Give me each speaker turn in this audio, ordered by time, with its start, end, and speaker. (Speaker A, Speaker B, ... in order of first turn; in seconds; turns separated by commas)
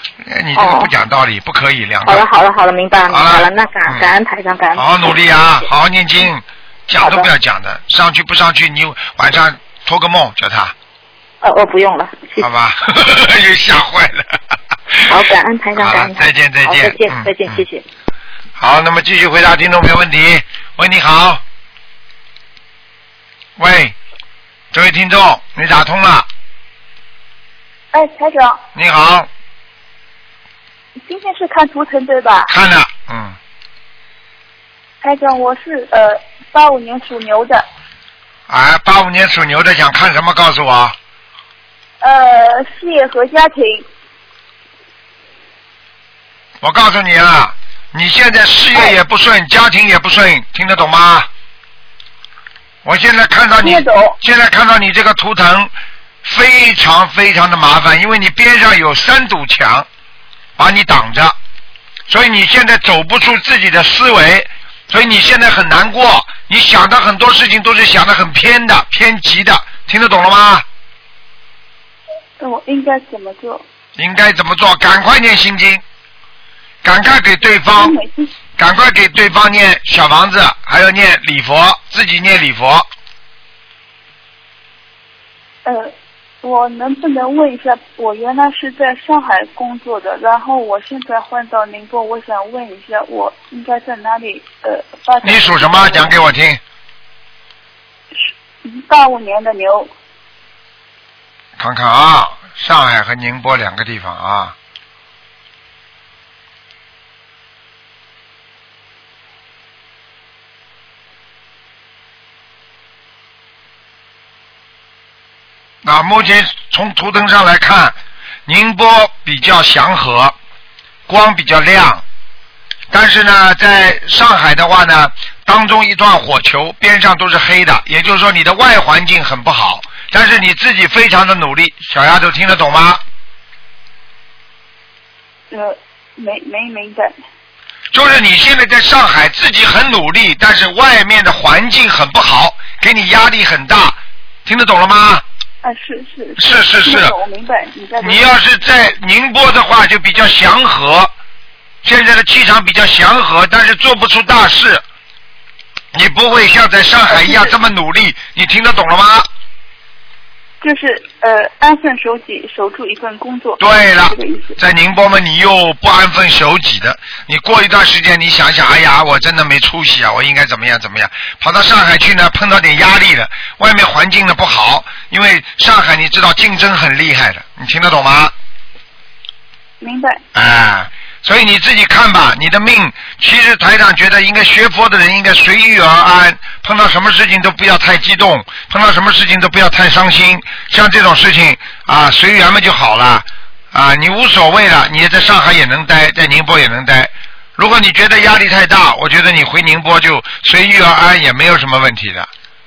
Speaker A: 0.2-2.2, Speaker B: 0.6-0.9, Speaker B: 2.0-4.9, Speaker A: 3.1-4.1, Speaker A: 4.8-10.7, Speaker B: 7.0-7.3, Speaker B: 11.4-12.5, Speaker A: 12.4-17.6, Speaker B: 15.1-17.8, Speaker A: 18.6-21.4, Speaker A: 23.6-23.9, Speaker A: 24.7-26.3, Speaker C: 27.9-28.6, Speaker A: 28.7-29.3, Speaker C: 31.0-32.5, Speaker A: 32.5-33.4, Speaker C: 35.0-37.6, Speaker A: 38.5-40.9, Speaker C: 42.0-43.9, Speaker A: 46.6-51.3, Speaker A: 52.8-55.7, Speaker C: 53.6-54.2, Speaker A: 56.2-59.9, Speaker A: 60.6-61.4, Speaker A: 62.1-70.6, Speaker C: 72.4-73.6, Speaker A: 74.0-75.8, Speaker A: 76.8-78.0, Speaker C: 77.8-78.3, Speaker A: 78.6-82.9, Speaker C: 85.6-96.1, Speaker A: 95.2-96.6, Speaker C: 98.1-99.9, Speaker A: 101.6-104.5, Speaker A: 115.8-120.3, Speaker A: 121.1-122.0, Speaker A: 122.9-133.0, Speaker C: 135.5-137.1, Speaker A: 137.9-145.2, Speaker C: 145.6-148.3, Speaker A: 146.4-147.1, Speaker A: 148.0-151.1, Speaker A: 151.8-154.8, Speaker A: 155.9-159.3, Speaker C: 157.1-157.5, Speaker C: 160.6-164.6, Speaker A: 163.6-178.3, Speaker C: 179.8-180.2, Speaker A: 180.3-202.3